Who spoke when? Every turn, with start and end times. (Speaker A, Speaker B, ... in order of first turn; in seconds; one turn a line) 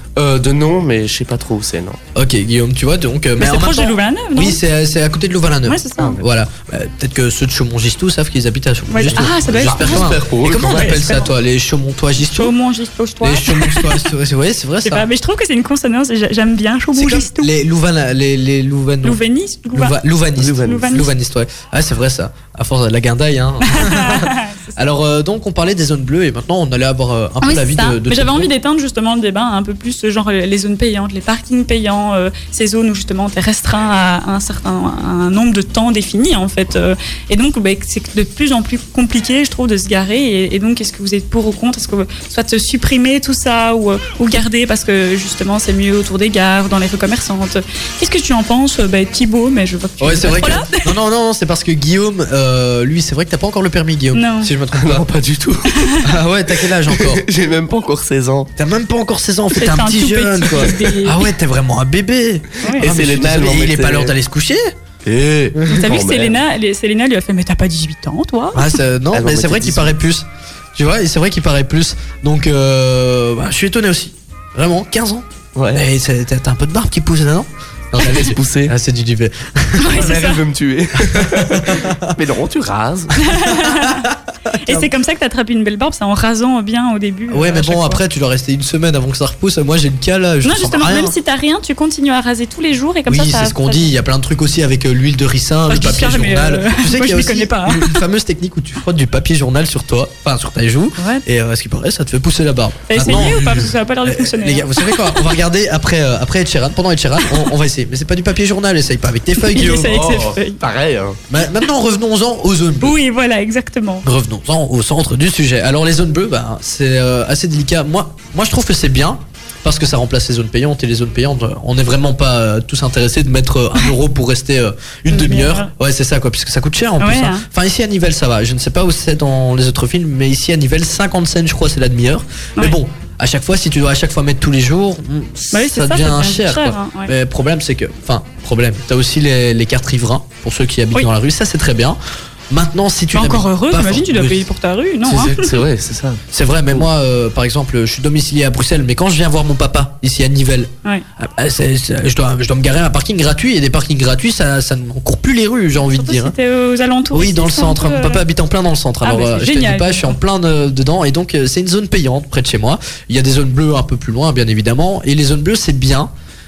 Speaker A: 0.1-2.0
Speaker B: 2.1-12.5
Speaker C: 3.4-4.6
Speaker C: 5.7-6.2
Speaker C: 8.9-11.3
Speaker A: 9.1-11.1
Speaker C: 12.3-14.1
Speaker B: 13.2-15.1
Speaker C: 14.8-17.5
Speaker B: 16.9-19.2
Speaker C: 19.0-20.0
Speaker B: 19.7-28.5
Speaker A: 20.4-20.8
Speaker C: 20.6-21.1
Speaker C: 23.6-24.8
Speaker C: 27.4-50.9
Speaker B: 50.0-55.1
Speaker C: 54.1-54.5
Speaker A: 54.7-55.7
Speaker C: 55.7-56.2
Speaker B: 56.0-57.2
Speaker A: 56.9-58.5
Speaker B: 58.6-64.7
Speaker C: 59.5-61.3
Speaker C: 62.6-62.9
Speaker A: 62.8-64.1
Speaker A: 65.0-66.4
Speaker C: 65.7-68.8
Speaker B: 68.5-80.1
Speaker A: 69.1-69.9
Speaker A: 75.5-75.8
Speaker A: 78.0-78.7
Speaker C: 79.8-80.4
Speaker A: 79.9-83.1
Speaker B: 81.1-82.1
Speaker C: 83.2-84.1
Speaker B: 83.2-84.1
Speaker C: 84.6-88.0
Speaker B: 87.3-91.1
Speaker C: 90.4-93.9
Speaker B: 93.1-110.1
Speaker C: 95.7-98.0
Speaker C: 101.0-101.2
Speaker C: 102.9-105.3
Speaker C: 109.4-110.6
Speaker A: 109.9-111.2
Speaker B: 111.3-112.9
Speaker C: 112.8-114.0
Speaker B: 114.0-142.0
Speaker C: 125.1-125.7
Speaker C: 127.0-127.5
Speaker C: 135.5-137.1
Speaker B: 142.5-144.4
Speaker C: 143.1-145.6
Speaker B: 145.1-145.3
Speaker A: 145.1-146.9
Speaker B: 146.3-156.3
Speaker C: 155.8-158.2
Speaker B: 157.1-166.1
Speaker C: 159.0-160.2